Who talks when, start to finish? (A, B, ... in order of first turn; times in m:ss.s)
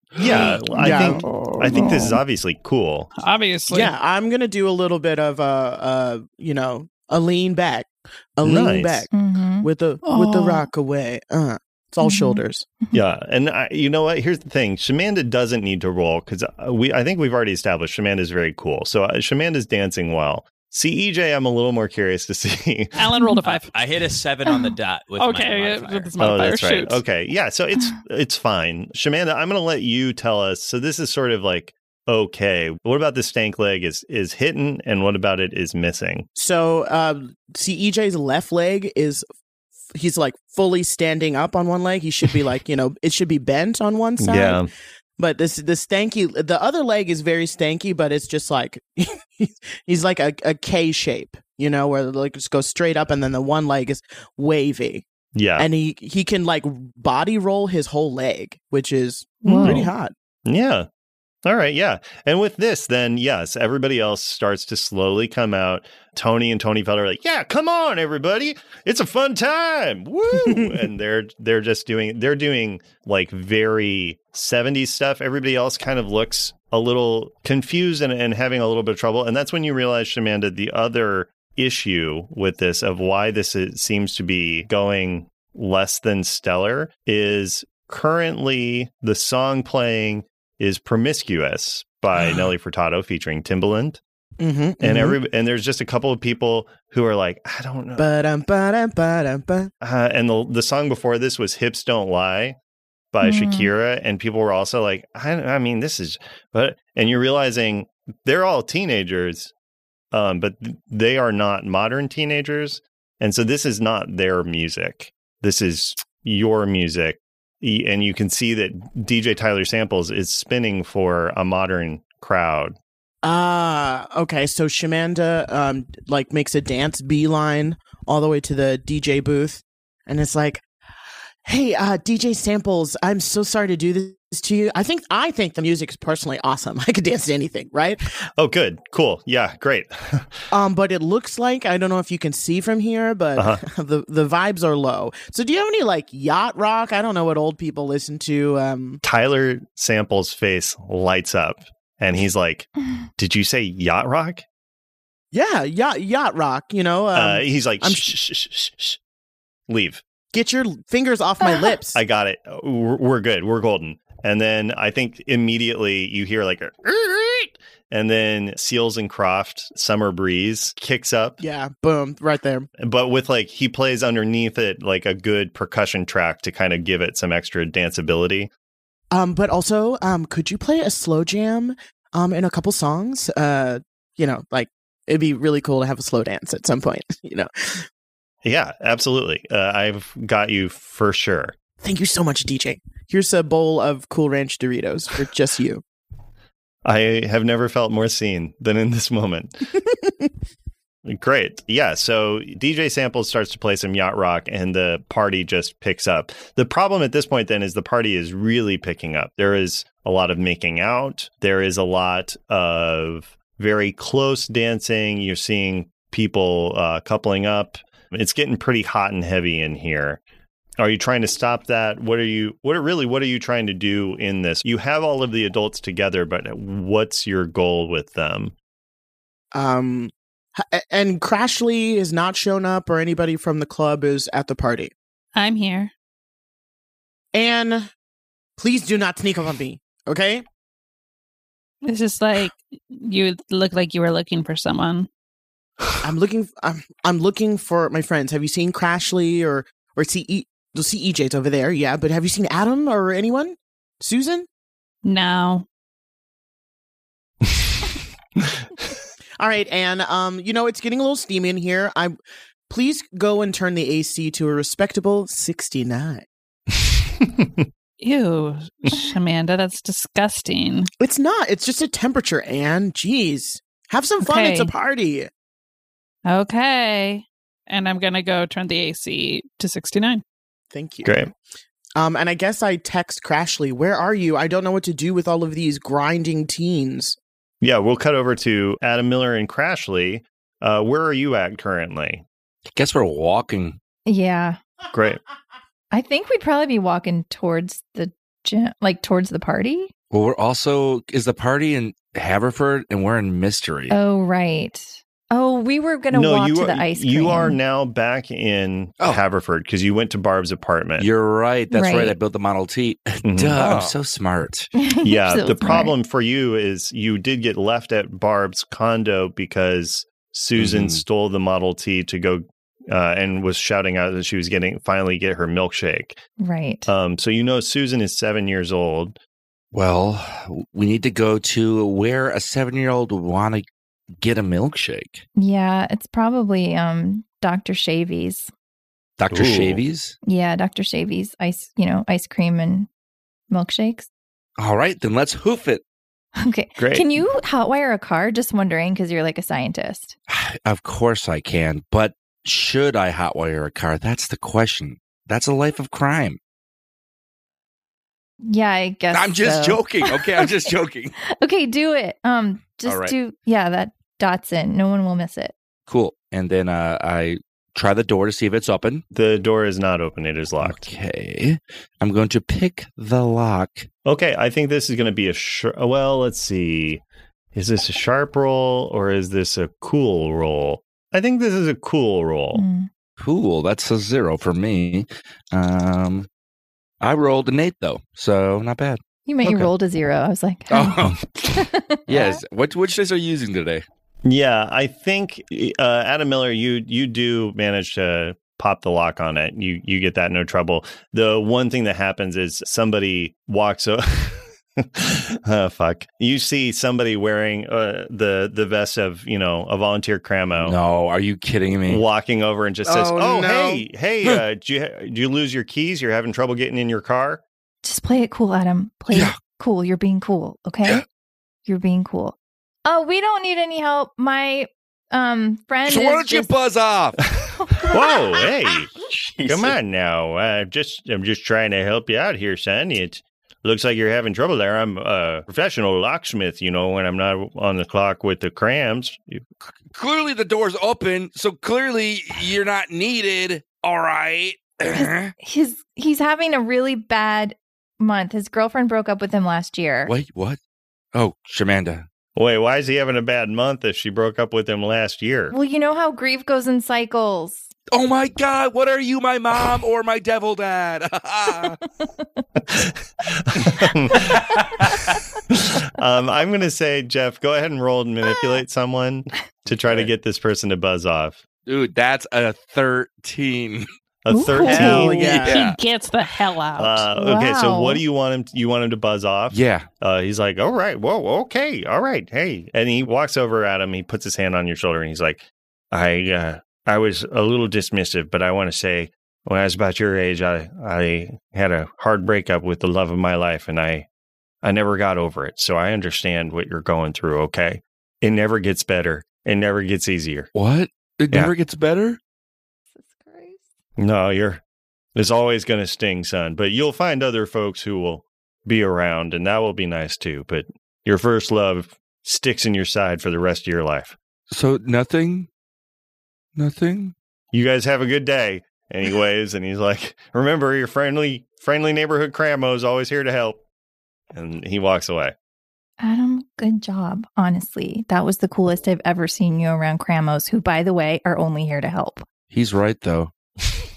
0:00.2-0:03.1 A
0:00.7-0:01.2 B
0:01.0-0:02.2 C
0:03.2-0:03.9 C
0:03.7-0:09.1 B
0:08.4-0:09.0 A
0:09.1-0:09.7 D
0:09.6-0:12.6 B
0:10.0-0:10.6 C
0:12.0-0:13.0 D
0:12.9-0:23.0 A
0:22.9-0:23.7 C
0:23.5-0:26.4 E
0:24.4-0:24.7 D
0:25.2-0:27.0 C
0:26.2-0:36.2 A
0:36.3-0:39.2 B
0:39.9-0:44.6 B
0:44.2-0:44.7 A
0:45.2-0:55.0 B
0:55.3-0:55.7 A
0:55.6-1:00.1 B
0:59.4-0:59.8 D
0:59.4-0:59.9 A
1:00.4-1:00.9 A
1:01.4-1:34.0 A
1:10.3-1:10.8 B
1:34.4-1:35.2 B
1:34.8-1:38.0 A
1:38.0-1:39.7 B
1:39.8-1:42.6 A
1:43.1-1:49.5 A
1:43.2-1:43.7 D
1:50.1-2:02.8 A
2:03.2-2:10.6 B
2:11.4-2:18.1 B
2:18.4-2:20.3 A
2:20.5-2:29.0 B
2:29.0-2:34.4 A
2:35.3-2:38.1 B
2:37.1-2:39.0 A
2:39.7-2:40.0 A
2:40.3-2:42.0 B
2:41.9-2:51.4 A
2:51.4-2:52.7 B
2:52.8-2:58.5 A
2:59.1-3:07.8 B
3:08.4-3:11.5 A
3:11.8-3:15.8 B
3:16.8-3:19.5 A
3:20.0-3:20.3 B
3:21.0-3:40.2 A
3:40.8-3:48.5 A
3:49.5-3:54.9 B
3:55.3-3:55.9 C
3:57.3-3:57.9 B
3:58.6-4:00.4 B
4:01.8-4:05.1 C
4:06.0-4:14.5 B
4:15.0-4:15.6 C
4:19.4-4:22.2 B
4:22.7-4:26.2 B
4:27.2-4:27.6 A
4:28.0-4:30.9 C
4:31.0-4:35.3 B
4:34.2-4:34.7 C
4:36.3-4:40.2 C
4:40.7-4:41.2 B
4:41.0-4:41.3 A
4:42.0-4:47.2 B
4:47.6-4:52.2 A
4:52.7-4:53.8 F
4:54.0-4:54.6 D
4:54.9-4:55.2 A
4:55.9-4:59.9 D
5:00.1-5:04.0 F
5:03.9-5:07.6 D
5:06.1-5:11.1 A
5:11.0-5:14.7 F
5:11.7-5:12.2 D
5:13.2-5:13.9 A
5:14.8-5:15.9 D
5:15.0-5:26.2 A
5:20.6-5:21.0 F
5:26.4-5:26.9 D
5:26.9-5:29.2 A
5:29.7-5:33.6 F
5:34.2-5:35.2 F
5:35.4-5:38.5 D
5:39.2-5:40.2 F
5:39.3-5:39.8 A
5:40.2-5:42.9 D
5:43.5-5:44.1 D
5:44.6-5:45.8 F
5:46.4-5:50.1 D
5:46.8-5:47.2 A
5:50.3-5:56.4 F
5:58.4-6:00.7 D
5:59.1-6:01.1 F
6:01.3-6:05.5 D
6:02.8-6:03.1 F
6:05.9-6:09.0 F
6:09.1-6:10.9 A
6:10.6-6:13.9 F
6:14.0-6:17.0 A
6:17.5-6:22.6 A
6:22.5-6:22.9 D
6:23.2-6:26.3 F
6:27.0-6:29.7 F
6:29.2-6:32.4 D
6:30.7-6:33.8 F
6:34.2-6:50.8 A
6:50.6-6:52.0 F
6:51.8-6:57.4 A
6:52.8-6:53.8 B
6:57.8-7:01.0 D
6:59.1-6:59.4 F
7:01.6-7:06.5 D
7:05.9-7:07.2 F
7:07.7-7:08.0 D
7:07.9-7:08.9 A
7:09.2-7:09.7 F
7:09.4-7:19.4 A
7:19.9-7:25.3 F
7:24.9-7:30.1 D
7:30.0-7:30.6 F
7:31.1-7:32.0 F
7:32.4-7:35.5 A
7:35.5-7:37.7 D
7:37.9-7:41.8 F
7:42.7-7:44.4 A
7:44.5-7:45.0 F
7:45.5-7:51.4 A
7:51.6-7:53.9 F
7:54.2-7:55.4 A
7:54.3-7:55.2 D
7:54.7-7:55.8 F
7:54.7-7:55.6 B
7:55.4-7:57.0 C
7:56.8-8:14.0 A
7:57.1-7:58.0 D
7:59.5-7:59.9 F
8:14.6-8:20.5 A
8:20.5-8:22.2 F
8:22.9-8:23.6 D
8:24.0-8:24.6 A
8:25.1-8:34.2 A
8:34.5-8:35.5 F
8:36.6-8:37.1 F
8:37.5-8:43.6 A
8:44.3-8:45.3 A
8:46.0-8:52.2 D
8:52.5-8:53.3 F